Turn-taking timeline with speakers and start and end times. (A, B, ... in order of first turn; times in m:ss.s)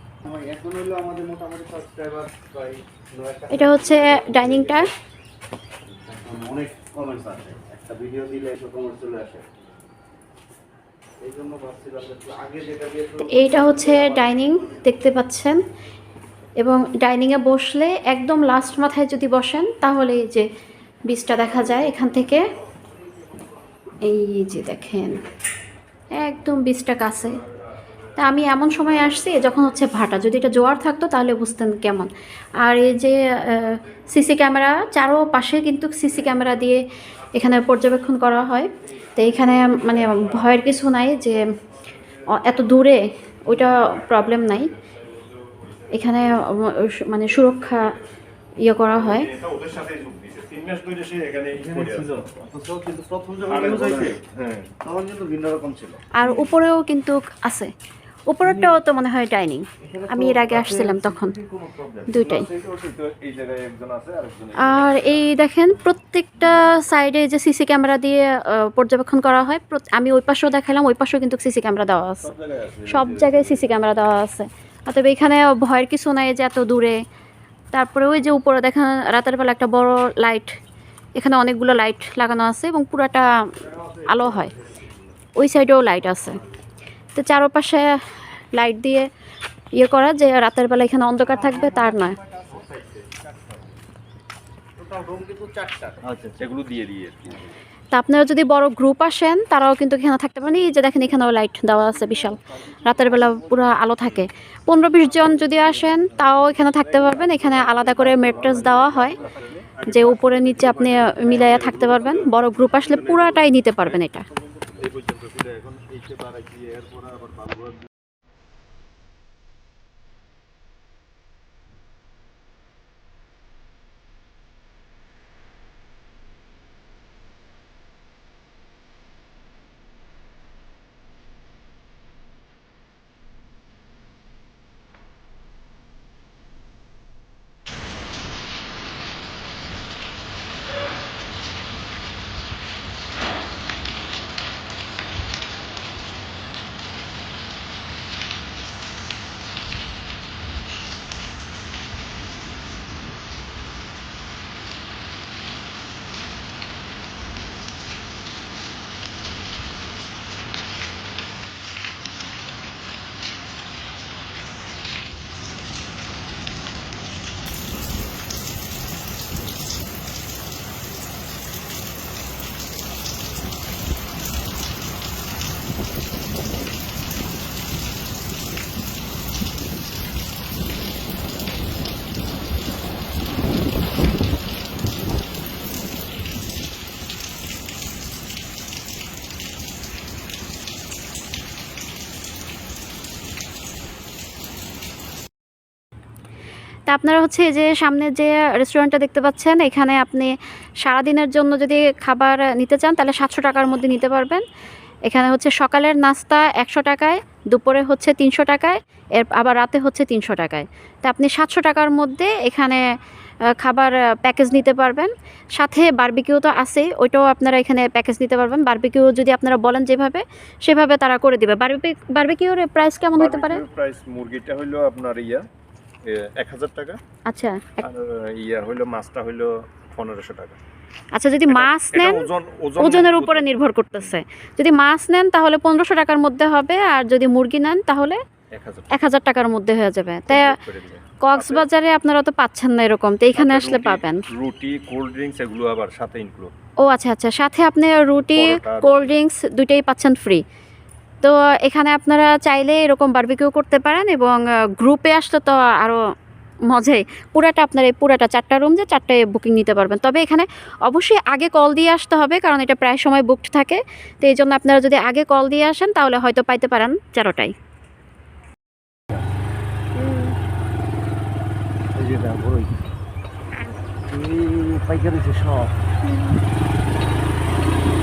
0:00.2-0:04.9 A
0:03.5-0:04.9 B
0:06.0-0:09.6 A
0:11.2-0:14.4 A
0:13.2-0:15.6 B
0:16.6-0:20.5 B
0:21.1-0:22.4 B
0:24.0-0:25.2 B
0:26.1-0:27.4 B
0:28.2-0:36.8 B
0:37.3-0:41.5 B
0:39.2-0:40.4 C
0:42.3-0:44.7 B
0:43.8-0:45.9 C
0:45.9-0:47.9 B
0:48.6-0:49.3 B
0:48.9-0:52.3 C
0:51.5-0:54.2 A
0:53.5-0:54.7 C
0:54.8-0:56.6 A
0:56.1-0:57.7 B
0:58.3-1:01.4 B
0:58.4-0:58.8 A
0:59.8-1:02.2 A
1:02.1-1:02.5 B
1:02.2-1:05.2 C
1:04.6-1:12.3 B
1:12.2-1:13.7 C
1:12.9-1:17.0 B
1:17.7-1:20.6 B
1:21.2-1:24.5 B
1:25.4-1:26.4 B
1:27.1-1:28.0 B
1:28.5-1:29.1 B
1:29.8-1:32.2 B
1:34.8-1:36.4 A
1:36.4-1:37.4 C
1:37.9-1:49.2 B
1:42.3-1:43.7 A
1:45.2-1:46.2 A
1:46.8-1:53.9 C
1:48.2-1:49.3 A
1:49.8-1:54.2 B
1:54.6-1:55.8 C
1:55.6-1:57.8 A
3:16.9-3:24.4 B
3:25.0-3:32.9 B
3:33.5-3:43.6 B
3:43.1-3:45.4 C
3:46.0-3:47.0 C
3:47.3-3:47.9 B
3:47.8-3:50.6 C
3:51.1-3:52.3 B
3:51.5-3:54.2 C
3:52.8-3:58.2 B
3:58.5-3:59.1 C
3:58.9-4:00.6 B
4:00.3-4:01.7 C
4:01.2-4:04.2 B
4:03.3-4:06.5 C
4:06.8-4:10.4 B
4:08.3-4:09.1 C
4:11.2-4:16.0 B
4:16.7-4:27.5 B
4:30.0-4:30.4 B
4:31.9-4:32.9 A
4:34.1-4:35.8 A
4:36.0-4:36.4 B